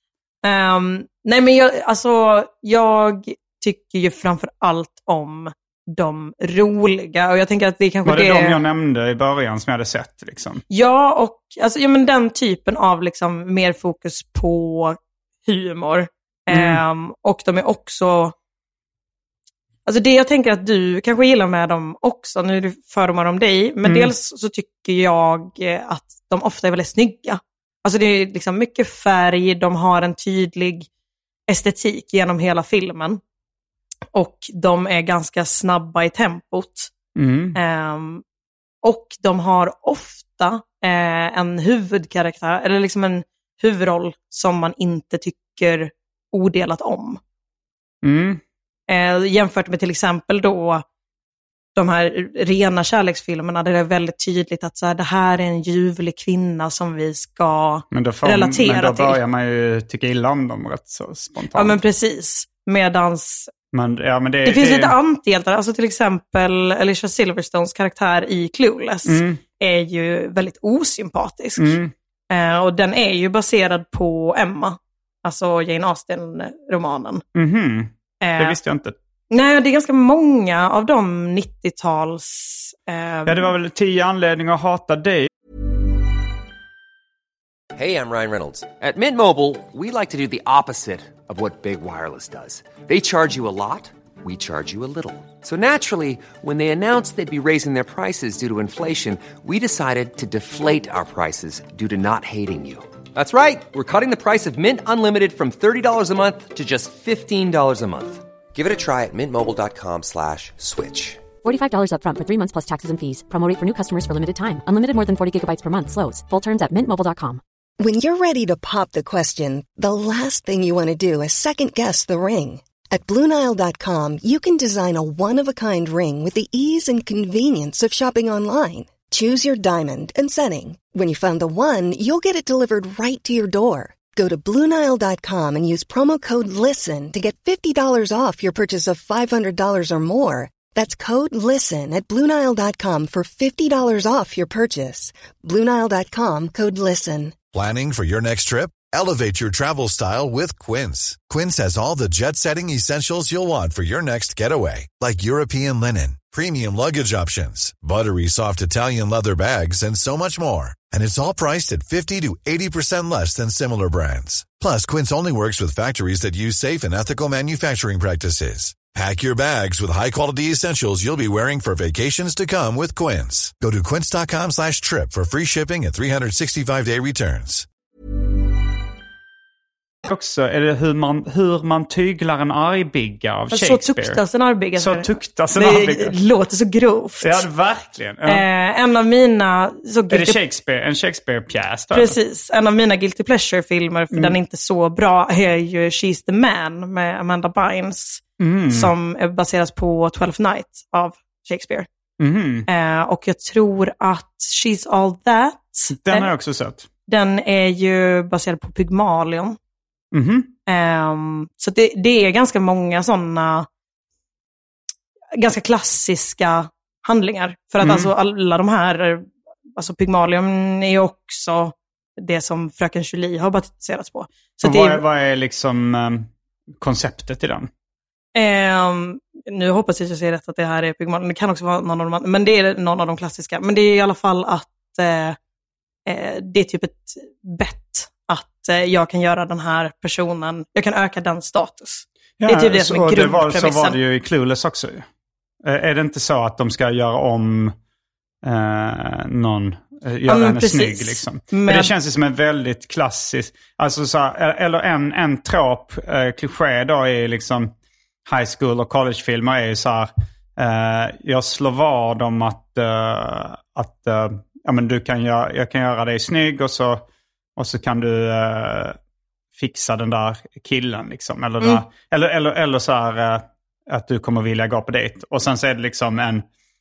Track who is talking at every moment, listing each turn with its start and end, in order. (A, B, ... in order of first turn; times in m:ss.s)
0:00.4-0:08.6 A
0:08.0-0:10.6 B
0:10.7-0:18.3 A
0:16.5-0:16.8 B
0:19.8-0:30.9 A
0:23.8-0:24.1 B
0:31.5-0:33.2 A
0:34.1-0:36.9 A
0:37.2-0:37.6 B
0:37.6-0:38.2 A
0:38.8-0:47.2 A
0:48.0-0:48.4 B
0:48.9-0:50.8 A
0:51.8-0:59.2 A
0:57.9-1:01.8 B
1:01.5-1:03.5 A
1:03.7-1:04.9 B
1:04.4-1:11.7 A
1:09.0-1:09.4 B
1:11.6-1:11.9 B
1:12.3-1:17.2 A
1:17.3-1:18.9 B
1:18.2-1:18.6 A
1:19.3-1:23.5 A
1:23.3-1:25.3 B
1:27.7-1:51.3 C
1:51.4-1:57.4 D
1:57.8-2:27.3 E
2:27.5-2:57.6 F
3:00.0-3:04.2 B
3:03.5-3:07.4 A
3:04.8-3:06.1 B
3:07.2-3:08.4 B
3:08.2-3:10.4 A
3:10.1-3:12.1 B
3:11.9-3:21.9 A
3:14.1-3:14.4 B
3:18.4-3:18.9 B
3:22.2-3:22.7 B
3:22.7-3:26.3 A
3:25.9-3:26.9 B
3:27.1-3:29.6 A
3:30.1-3:30.5 B
3:30.7-3:33.7 A
3:35.4-3:45.0 A
3:37.8-3:38.1 B
3:44.6-3:46.3 B
3:46.8-3:47.7 B
3:48.3-3:55.4 A
3:56.1-4:04.0 A
4:02.4-4:05.0 B
4:05.6-4:07.7 B
4:08.4-4:17.7 B
4:10.2-4:11.9 A
4:18.2-4:27.0 B
4:27.6-4:29.0 B
4:29.5-4:36.4 B